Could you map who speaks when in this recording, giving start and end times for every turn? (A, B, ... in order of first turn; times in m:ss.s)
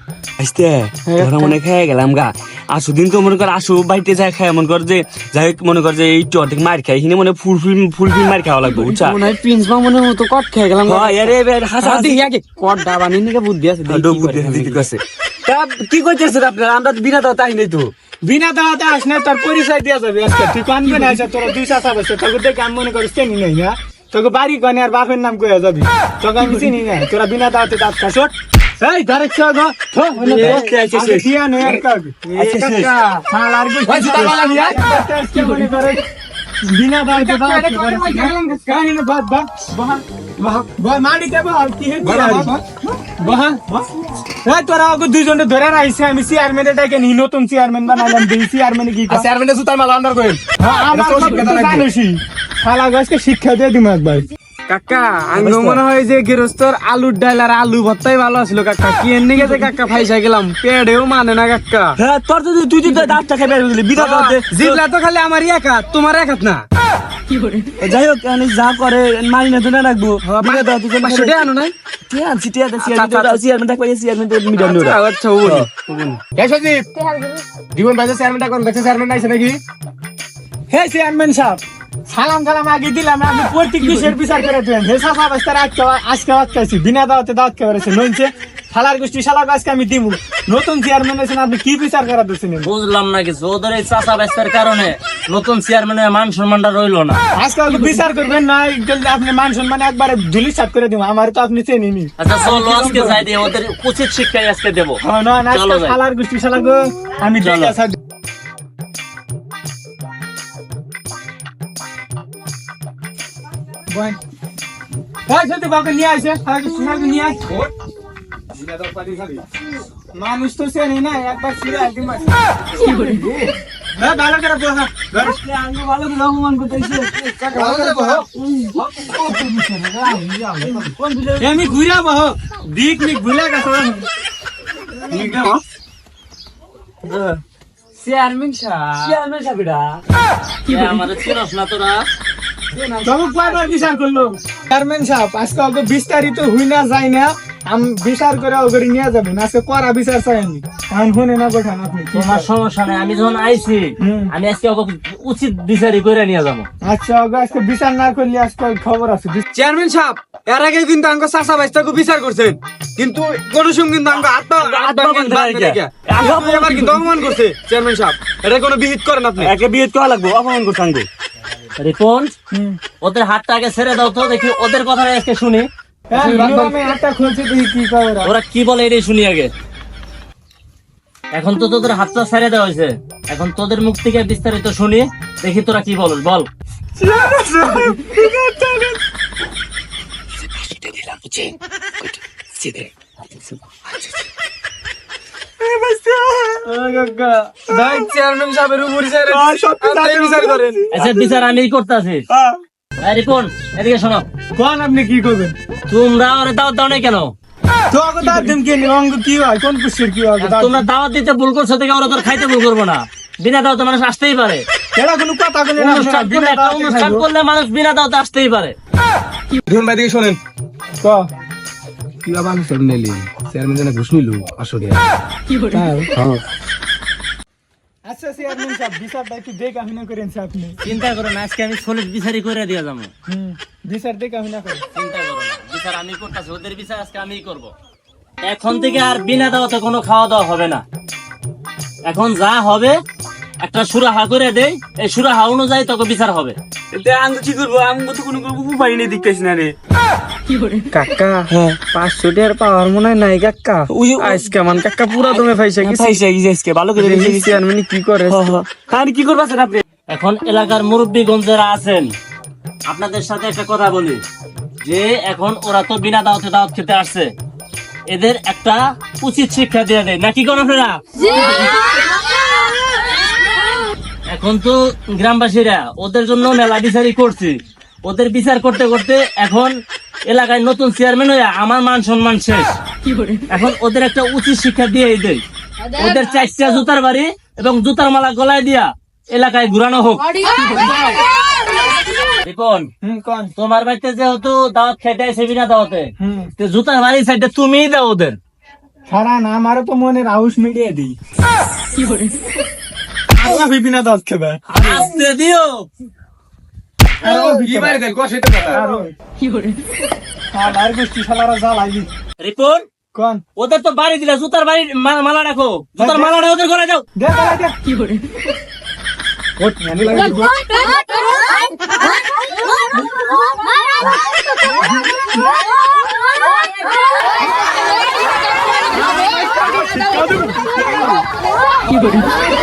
0:00.4-0:09.2 A
0:01.1-0:01.6 B
0:09.0-0:15.0 B
0:10.9-0:12.2 A
0:13.9-0:17.9 A
0:18.2-0:32.1 C
0:20.8-0:21.2 B
0:30.1-0:31.3 A
0:30.2-0:30.8 B
0:32.3-0:33.2 B
0:32.4-0:32.9 A
0:33.3-0:36.0 C
0:33.9-0:34.8 D
0:34.3-0:34.7 B
0:36.6-0:40.0 C
0:37.1-0:38.8 B
0:40.6-0:42.6 C
0:42.0-0:42.6 D
0:43.2-0:43.9 C
0:44.4-0:49.3 C
0:49.1-0:50.4 D
0:50.6-0:54.3 C
0:50.9-0:51.9 D
0:54.7-1:02.0 B
0:55.4-0:55.8 A
1:02.0-1:04.8 A
1:02.8-1:03.1 B
1:03.9-1:06.6 B
1:07.8-1:11.5 A
1:10.2-1:11.7 B
1:12.1-1:15.7 A
1:12.8-1:13.4 B
1:14.6-1:16.2 B
1:16.4-1:16.9 D
1:17.7-1:19.6 D
1:20.7-1:32.7 C
1:32.6-1:37.2 E
1:37.4-1:43.2 C
1:42.2-1:46.0 E
1:45.0-1:48.0 C
1:47.4-1:47.8 E
1:53.9-1:54.2 C
1:55.3-1:57.4 C
1:58.5-1:59.4 D
2:00.2-2:02.4 C
2:02.8-2:03.4 A
2:04.0-2:05.4 C
2:05.2-2:07.3 A
2:07.3-2:08.2 B
2:07.5-2:08.2 D
2:08.4-2:11.6 A
2:11.4-2:14.1 C
2:15.1-2:15.6 B
2:18.0-2:19.2 B
2:18.7-2:20.0 A
2:20.7-2:22.1 E
2:22.7-2:23.7 A
2:23.0-2:32.5 C
2:32.1-2:36.7 E
2:34.0-2:34.3 C
2:36.8-2:39.4 C
2:39.5-2:49.5 B
2:44.6-2:47.1 A
2:49.4-2:51.1 A
2:51.8-2:52.4 E
2:52.5-2:52.8 C
2:53.0-2:56.5 E
2:56.1-2:58.3 C
2:58.2-2:59.5 E
3:01.3-3:06.5 E
3:07.0-3:08.1 C
3:08.2-3:08.6 B
3:10.6-3:11.5 A
3:12.6-3:12.9 A
3:16.7-3:18.0 C
3:17.7-3:20.9 B
3:19.3-3:20.8 C
3:20.9-3:22.2 E
3:23.0-3:24.2 E
3:24.6-3:25.6 C
3:25.9-3:27.3 E
3:27.9-3:30.9 C
3:30.4-3:34.6 E
3:35.0-3:37.3 C
3:35.8-3:38.8 E
3:39.7-3:40.4 D
3:41.0-3:41.3 C
3:42.2-3:45.0 D
3:45.7-3:46.1 C
3:46.2-3:46.4 D
3:48.1-3:50.8 C
3:50.8-3:53.1 E
3:53.3-3:54.8 C
3:55.0-3:57.7 E
3:58.4-4:00.8 E
4:02.1-4:03.0 E
4:03.6-4:06.6 E
4:06.9-4:09.7 A
4:10.9-4:16.3 B
4:11.5-4:11.8 A
4:13.9-4:17.6 A
4:17.0-4:18.7 B
4:18.3-4:19.8 A
4:20.1-4:22.1 E
4:22.9-4:24.2 E
4:24.8-4:27.3 E
4:28.1-4:31.8 E
4:34.3-4:39.8 E
4:40.3-4:42.8 E
4:43.5-4:45.4 E
4:46.0-4:51.2 E
4:52.4-4:52.9 E
4:53.0-4:53.5 C
4:53.6-4:58.4 E
4:56.2-4:56.5 C
4:59.1-5:01.2 C
5:03.3-5:04.6 C
5:04.7-5:05.9 E
5:07.2-5:08.1 C
5:07.2-5:09.1 D
5:08.6-5:09.1 C
5:10.5-5:12.1 C
5:12.4-5:12.8 E
5:13.1-5:13.4 C
5:13.6-5:17.0 E
5:16.0-5:16.4 C
5:17.2-5:17.8 C
5:19.6-5:20.5 D
5:29.6-5:30.5 C